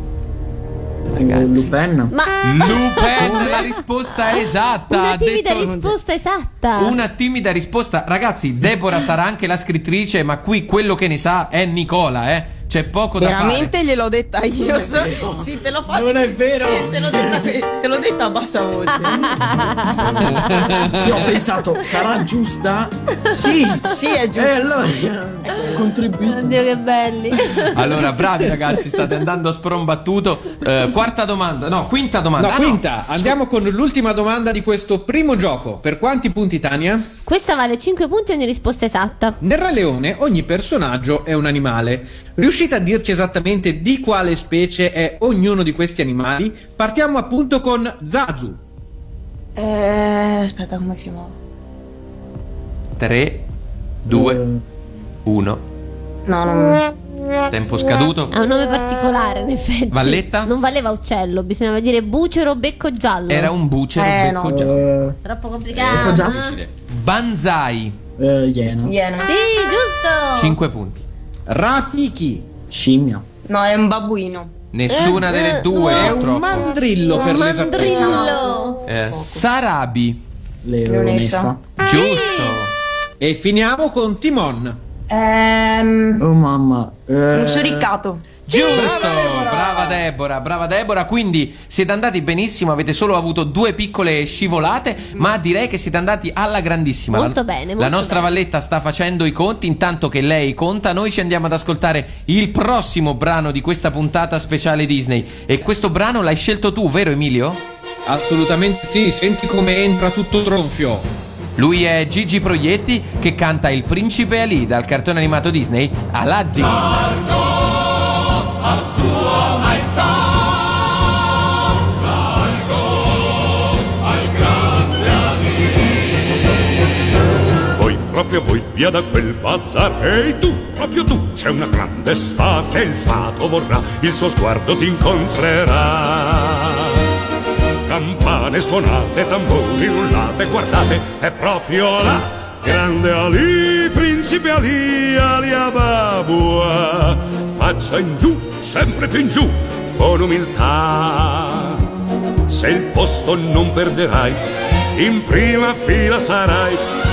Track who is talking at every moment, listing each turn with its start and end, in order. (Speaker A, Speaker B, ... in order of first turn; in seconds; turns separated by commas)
Speaker A: 1.1-2.1, Speaker B: 1.2-1.8, Speaker C: 2.1-3.6, Speaker B: 2.4-5.8, Speaker C: 4.9-6.9, Speaker B: 6.8-13.7, Speaker D: 13.2-19.3, Speaker A: 14.6-17.6, Speaker A: 19.4-20.4, Speaker C: 19.5-20.8, Speaker E: 20.4-21.2, Speaker A: 21.0-26.7, Speaker D: 23.8-24.6, Speaker C: 26.3-27.8, Speaker B: 27.7-32.8, Speaker E: 32.4-37.1, Speaker C: 37.3-39.4, Speaker E: 39.4-48.6, Speaker D: 49.6-51.3, Speaker B: 53.0-53.5, Speaker B: 54.0-54.4, Speaker A: 54.1-54.6, Speaker B: 55.2-55.6, Speaker D: 56.3-56.9, Speaker B: 57.5-58.3, Speaker C: 58.3-63.5, Speaker B: 59.9-60.5, Speaker B: 63.3-64.8, Speaker D: 64.0-64.7, Speaker A: 64.5-65.2, Speaker C: 65.2-66.5, Speaker A: 65.8-66.5, Speaker B: 65.9-68.0, Speaker A: 68.2-68.9, Speaker D: 68.9-69.3, Speaker C: 69.3-70.6, Speaker B: 70.4-71.0, Speaker E: 71.5-72.5, Speaker A: 72.7-73.2, Speaker D: 73.5-74.5, Speaker B: 74.7-76.7, Speaker C: 74.9-76.2, Speaker E: 75.9-78.4, Speaker C: 77.1-78.8, Speaker D: 77.9-78.4, Speaker B: 78.9-80.2, Speaker D: 79.1-79.4, Speaker A: 80.6-81.6, Speaker D: 80.9-81.5, Speaker B: 81.8-82.7, Speaker C: 81.8-82.6, Speaker E: 83.2-84.8, Speaker D: 85.1-86.2, Speaker A: 86.2-87.9, Speaker D: 87.3-88.2, Speaker B: 88.5-107.6, Speaker E: 88.5-90.0, Speaker C: 88.6-88.8, Speaker C: 97.1-98.3, Speaker E: 108.1-111.1, Speaker B: 111.6-117.2, Speaker F: 127.8-136.6, Speaker F: 137.9-151.6, Speaker F: 152.5-154.4, Speaker F: 155.0-156.8